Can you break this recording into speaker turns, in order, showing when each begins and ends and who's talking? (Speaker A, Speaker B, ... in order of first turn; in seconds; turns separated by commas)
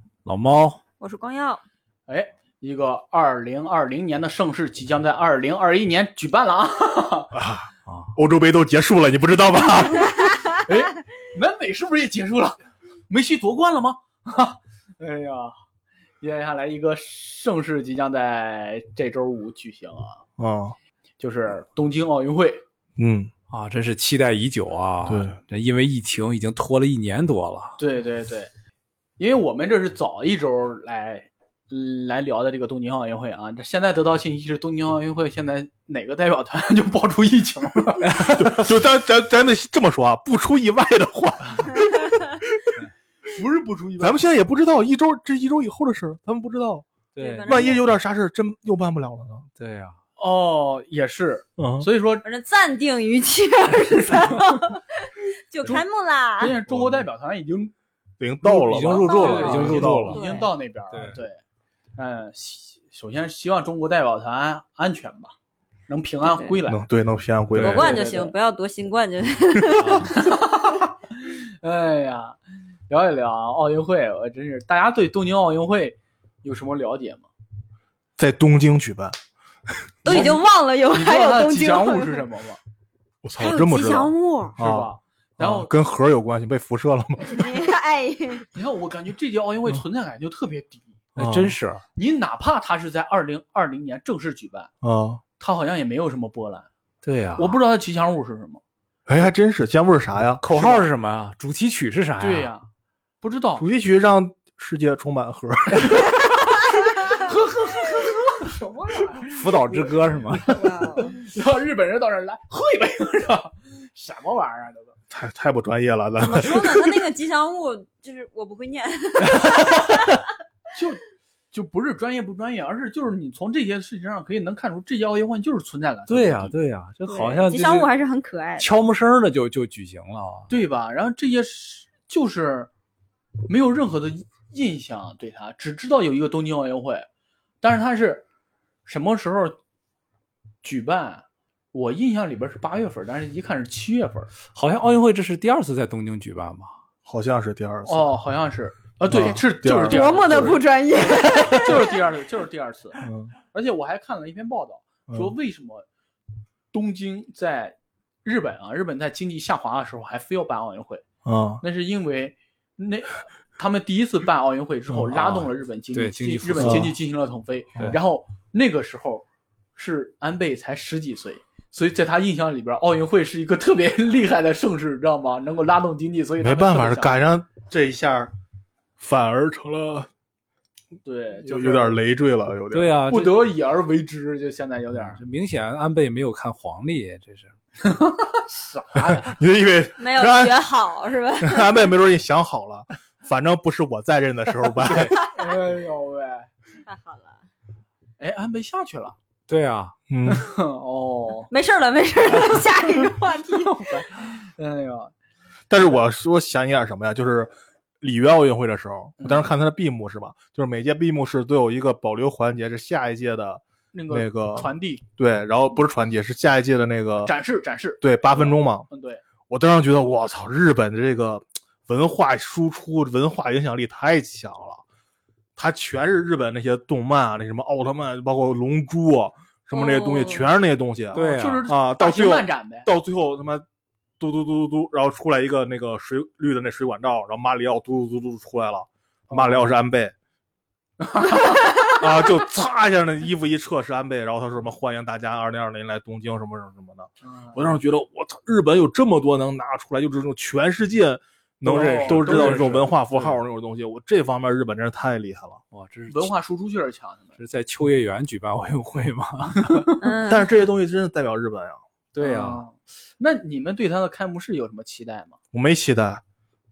Speaker A: 0.2-0.8, Speaker B: 1.0-1.6, Speaker C: 2.1-7.3, Speaker D: 7.3-10.3, Speaker C: 10.6-15.5, Speaker C: 16.2-20.2, Speaker D: 20.4-20.8, Speaker C: 21.2-22.6, Speaker D: 23.0-23.3, Speaker A: 23.5-27.8, Speaker D: 25.1-25.4, Speaker C: 27.8-28.5, Speaker C: 29.2-38.4, Speaker A: 38.0-38.5, Speaker D: 38.2-42.8, Speaker C: 43.2-44.2, Speaker D: 44.0-46.9, Speaker A: 47.1-47.8, Speaker B: 47.2-47.8, Speaker D: 47.4-49.5, Speaker A: 49.6-50.0, Speaker C: 50.2-52.2, Speaker D: 51.6-51.9, Speaker B: 52.2-56.5, Speaker C: 56.4-57.7, Speaker D: 56.7-57.0, Speaker D: 58.2-60.1, Speaker A: 58.4-60.2, Speaker C: 58.7-61.4, Speaker B: 59.0-60.5, Speaker A: 60.9-61.2, Speaker C: 62.0-65.3, Speaker C: 65.9-66.8, Speaker B: 66.2-66.6, Speaker D: 66.7-68.0, Speaker A: 67.5-67.8, Speaker B: 67.6-70.2, Speaker C: 67.6-68.3, Speaker A: 69.7-70.1, Speaker C: 70.1-72.4, Speaker C: 72.9-77.3, Speaker D: 78.2-79.2, Speaker D: 80.0-80.4, Speaker B: 80.0-82.2, Speaker C: 80.1-80.4, Speaker C: 80.9-82.6, Speaker D: 83.2-87.7, Speaker B: 83.4-84.6, Speaker C: 84.6-85.7, Speaker B: 87.2-88.5, Speaker C: 88.5-90.9, Speaker D: 91.2-91.6, Speaker A: 91.2-91.8, Speaker C: 92.0-94.7, Speaker D: 94.8-95.2, Speaker C: 95.4-96.7, Speaker A: 97.0-97.5, Speaker C: 97.4-98.6, Speaker D: 99.1-100.4, Speaker A: 100.4-102.5, Speaker C: 100.5-100.9, Speaker C: 102.2-102.7, Speaker C: 103.2-103.7, Speaker D: 103.6-106.1, Speaker C: 106.9-114.9, Speaker A: 109.3-110.5, Speaker B: 110.4-111.2, Speaker D: 115.1-117.0, Speaker B: 116.2-120.2, Speaker A: 119.2-120.1, Speaker C: 120.7-126.5, Speaker A: 126.1-127.9, Speaker B: 127.1-128.7, Speaker A: 128.6-130.5, Speaker C: 130.5-132.7, Speaker C: 133.5-137.1, Speaker C: 137.6-138.2, Speaker C: 138.8-139.6, Speaker C: 140.6-144.3, Speaker A: 144.5-146.7, Speaker D: 147.1-148.1, Speaker C: 147.8-150.6, Speaker D: 149.1-150.6, Speaker B: 149.8-151.9, Speaker C: 151.3-155.8, Speaker D: 153.0-153.3, Speaker C: 156.7-161.0, Speaker D: 161.2-161.6, Speaker C: 161.6-177.1, Speaker A: 165.2-166.9, Speaker D: 166.6-166.9, Speaker D: 176.4-178.3, Speaker D: 179.0-180.1, Speaker C: 181.0-182.0, Speaker D: 181.4-182.9, Speaker A: 182.7-183.4, Speaker C: 183.1-185.2, Speaker A: 185.1-187.5, Speaker C: 187.8-189.3, Speaker D: 188.9-190.6, Speaker B: 190.0-191.9, Speaker D: 191.4-195.2, Speaker A: 194.8-195.1, Speaker B: 195.1-195.5, Speaker C: 195.2-196.5, Speaker B: 196.8-197.4, Speaker C: 198.2-199.2, Speaker A: 199.5-199.9, Speaker D: 200.1-200.5, Speaker C: 200.2-201.5, Speaker B: 201.5-204.0, Speaker C: 203.1-205.1, Speaker D: 205.7-217.3, Speaker C: 209.2-209.4, Speaker C: 213.9-215.0, Speaker C: 217.2-219.2, Speaker D: 218.0-218.8, Speaker D: 219.5-224.8, Speaker D: 225.6-233.6, Speaker B: 229.7-230.5, Speaker A: 231.1-231.7, Speaker C: 231.1-232.9, Speaker D: 234.2-240.1, Speaker C: 239.3-239.7, Speaker C: 241.0-241.9, Speaker D: 241.9-255.6, Speaker C: 247.2-247.7, Speaker C: 251.6-252.8, Speaker A: 251.7-253.3, Speaker A: 255.7-256.3, Speaker C: 256.1-257.4, Speaker A: 257.4-259.9, Speaker C: 259.6-260.0, Speaker B: 260.0-260.5, Speaker D: 260.2-261.8, Speaker A: 262.1-262.6, Speaker C: 262.2-265.4, Speaker D: 265.5-266.2